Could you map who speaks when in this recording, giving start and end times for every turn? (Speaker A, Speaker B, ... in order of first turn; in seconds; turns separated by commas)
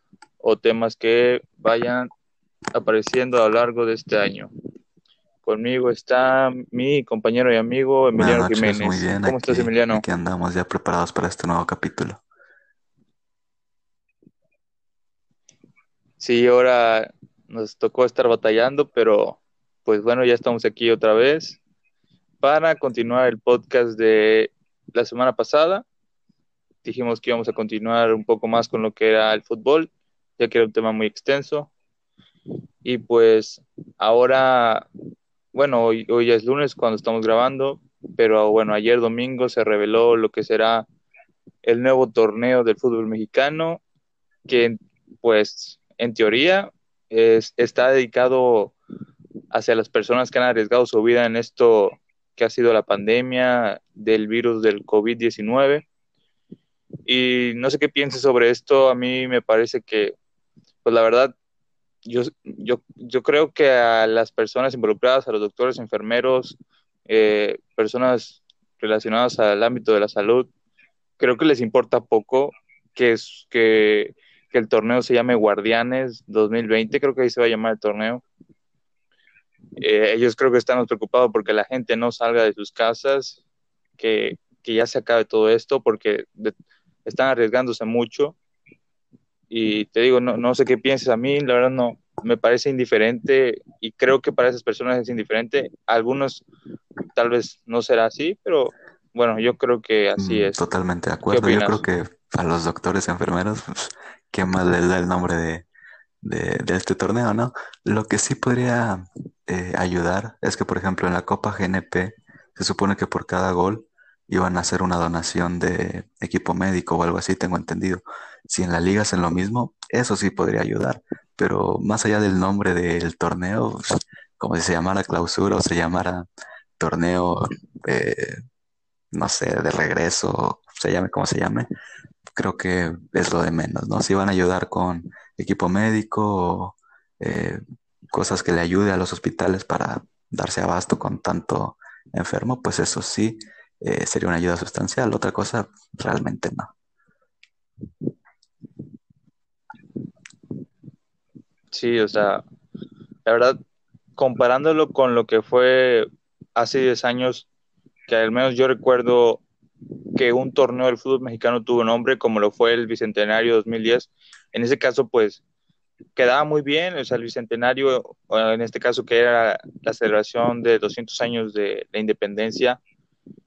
Speaker A: 0.4-2.1, Speaker A: 2.7-4.5, Speaker A: 5.4-10.0, Speaker B: 8.2-12.2, Speaker A: 16.2-21.6, Speaker A: 22.4-25.8, Speaker A: 26.8-31.7, Speaker A: 32.8-34.9, Speaker A: 35.5-40.9, Speaker A: 41.6-43.8, Speaker A: 44.5-48.8, Speaker A: 49.5-55.8, Speaker A: 57.0-60.1, Speaker A: 60.8-61.4, Speaker A: 62.0-70.5, Speaker A: 71.2-78.2, Speaker A: 79.8-83.4, Speaker A: 84.0-86.5, Speaker A: 87.0-88.3, Speaker A: 89.5-96.4, Speaker A: 97.1-100.6, Speaker B: 100.2-105.7, Speaker A: 101.3-101.8, Speaker B: 106.2-126.2, Speaker B: 126.8-128.4, Speaker B: 129.1-131.7, Speaker B: 132.3-146.7, Speaker A: 151.7-152.4, Speaker A: 153.2-153.6, Speaker A: 154.2-157.5, Speaker A: 158.1-159.4, Speaker A: 160.1-165.4, Speaker A: 166.2-172.8